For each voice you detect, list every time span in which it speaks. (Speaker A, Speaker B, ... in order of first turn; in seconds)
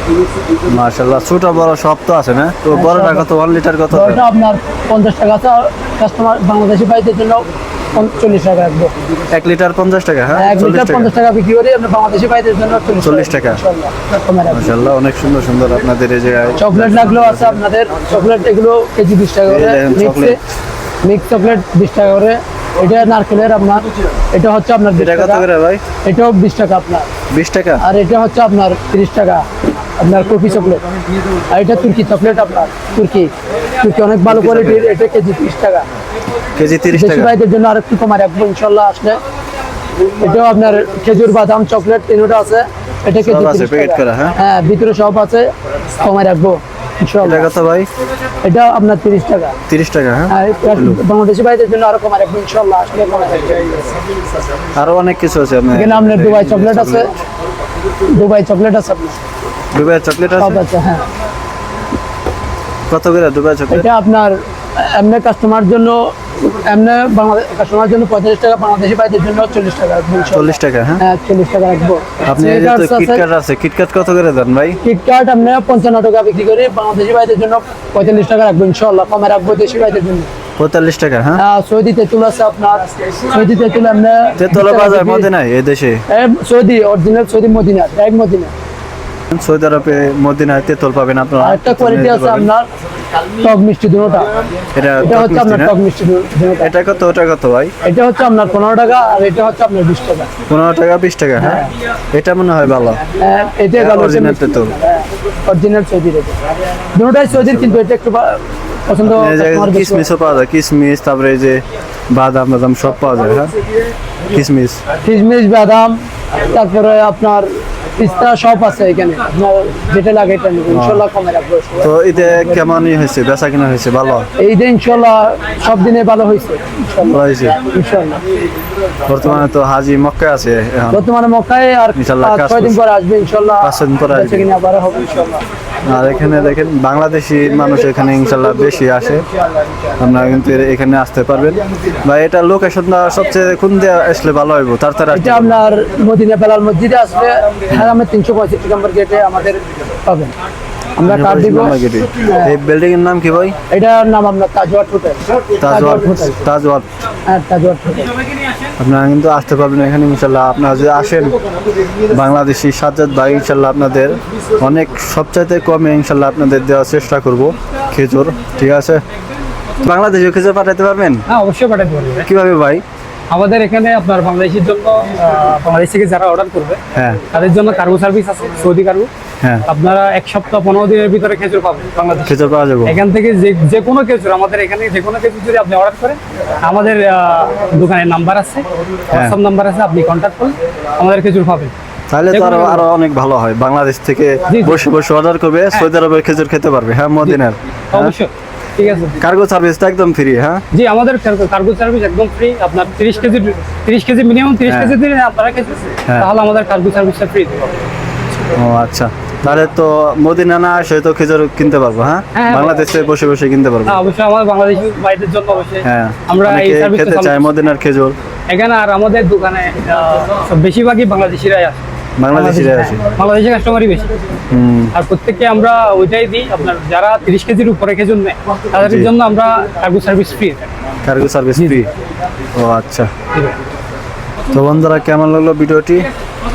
Speaker A: 0.7-4.2, 9.3-11.1, 13.0-13.6, 14.5-17.6, 19.5-20.4, 24.9-25.8, 27.3-27.8, 34.2-34.9, 36.5-37.3, 43.2-44.4, 47.2-47.9, 49.7-51.0, 54.8-57.1, 59.7-60.6, 62.9-63.9, 70.3-71.0, 72.2-74.8, 80.6-81.4, 84.4-86.0, 89.3-92.5, 94.7-95.7, 96.6-97.7, 100.5-103.0, 103.8-104.7, 107.3-107.7, 109.0-113.5, 114.3-114.8, 120.7-121.0, 121.8-124.3, 127.0-127.6, 129.1-131.1, 131.9-132.8, 133.6-134.5, 135.8-139.2, 140.0-145.6, 151.0-153.6, 155.6-156.8, 158.8-161.4, 162.1-169.0, 169.8-171.2, 172.2-172.8, 176.9-177.2, 182.2-183.0, 189.1-189.4, 192.1-198.1, 199.2-200.6, 204.7-205.0, 208.5-214.0, 215.8-218.2, 222.2-223.0, 224.5-224.9, 228.8-229.1, 231.0-231.9, 232.6-233.1, 234.5-236.1
Speaker B: 2.7-3.3, 3.9-8.9, 10.3-14.7, 16.6-20.4, 21.0-25.4, 26.0-27.1, 27.8-29.4, 30.0-30.8, 31.5-35.9, 36.9-39.2, 40.2-47.5, 48.4-49.5, 50.3-54.0, 55.7-57.2, 58.1-59.2, 60.4-61.0, 63.7-73.2, 74.8-80.3, 81.3-85.3, 86.1-88.5, 91.4-92.7, 93.4-94.3, 95.0-96.7, 97.8-100.3, 101.4-101.7, 103.2-106.4, 106.9-110.1, 115.0-122.6, 124.4-128.2, 130.9-135.4, 145.1-150.3, 151.0-152.6, 153.7-156.4, 157.3-158.1
Speaker C: 171.3-172.2, 173.3-176.8, 177.3-179.1, 179.7-182.3, 182.8-191.7, 192.3-192.8, 197.9-199.1, 200.7-207.8, 212.3-212.8, 213.9-217.5, 218.5-221.8, 222.3-224.1, 224.9-230.7